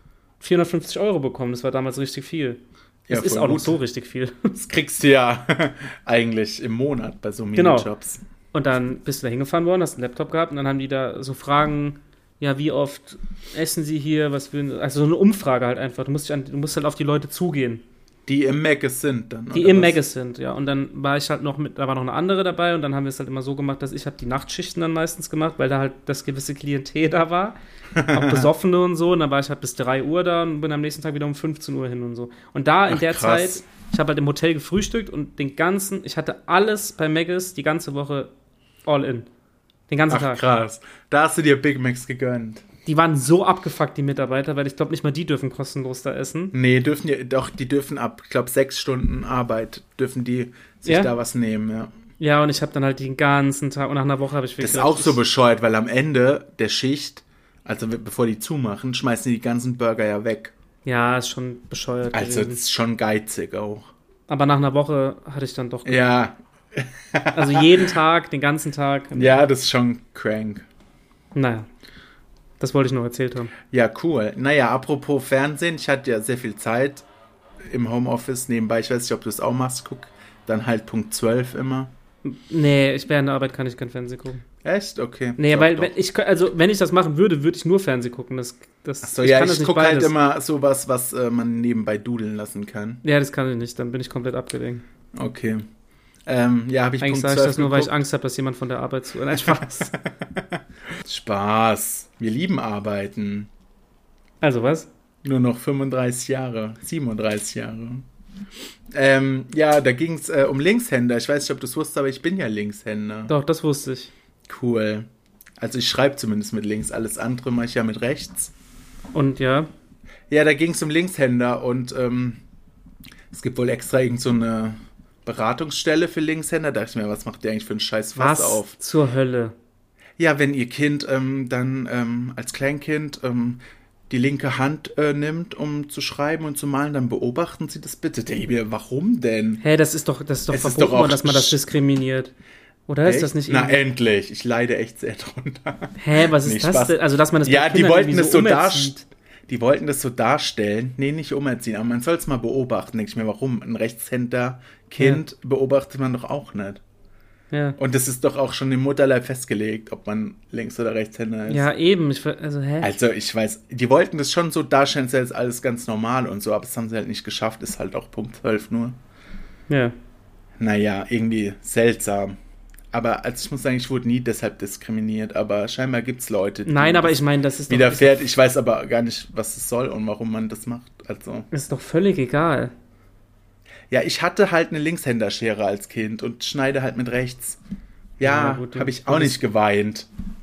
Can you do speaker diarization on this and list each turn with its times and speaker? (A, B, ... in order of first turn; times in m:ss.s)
0:00.4-0:04.6 A
0:03.1-0:03.8 B
0:04.5-0:08.2 B
0:07.5-0:07.9 A
0:08.5-0:17.8 A
0:18.3-0:20.0 B
0:19.5-0:38.3 A
0:27.9-0:28.5 B
0:32.9-0:33.6 B
0:38.8-0:39.3 A
0:39.9-0:40.4 A
0:40.1-0:42.6 B
0:42.8-0:46.5 A
0:46.5-0:51.9 B
0:50.8-0:51.1 A
0:52.2-0:55.2 A
0:54.6-1:00.5 B
1:00.8-1:02.6 A
1:02.1-1:03.9 B
1:04.3-1:06.1 A
1:05.8-1:07.9 B
1:07.3-1:09.4 A
1:09.1-1:10.6 B
1:11.3-1:11.7 A
1:12.6-1:13.5 A
1:13.7-1:17.0 B
1:17.6-1:21.9 B
1:22.2-1:24.4 A
1:24.6-1:25.9 B
1:25.4-1:30.1 A
1:29.0-1:33.0 B
1:33.0-1:34.8 A
1:35.1-1:35.6 B
1:36.2-1:38.0 B
1:37.0-1:40.0 A
1:41.0-1:43.5 B
1:44.4-1:44.9 A
1:45.2-1:48.0 B
1:48.9-1:53.3 B
1:53.3-1:54.1 A
1:54.5-1:55.0 B
1:55.6-1:58.5 B
1:59.1-1:59.7 A
2:00.3-2:02.4 B
2:03.3-2:08.7 B
2:08.2-2:09.5 A
2:10.2-2:19.6 B
2:19.6-2:22.3 A
2:20.5-2:21.6 B
2:22.9-2:23.8 A
2:23.0-2:28.9 B
2:26.0-2:29.0 A
2:29.5-2:36.8 B
2:37.5-2:37.8 A
2:37.8-2:41.7 B
2:41.5-2:42.9 A
2:42.8-2:49.0 B
2:49.7-2:49.9 A
2:50.6-2:52.4 B
2:52.9-3:01.5 B
2:56.6-2:58.2 A
3:01.5-3:02.7 A
3:03.9-3:07.6 B
3:08.2-3:10.1 B
3:08.2-3:09.4 A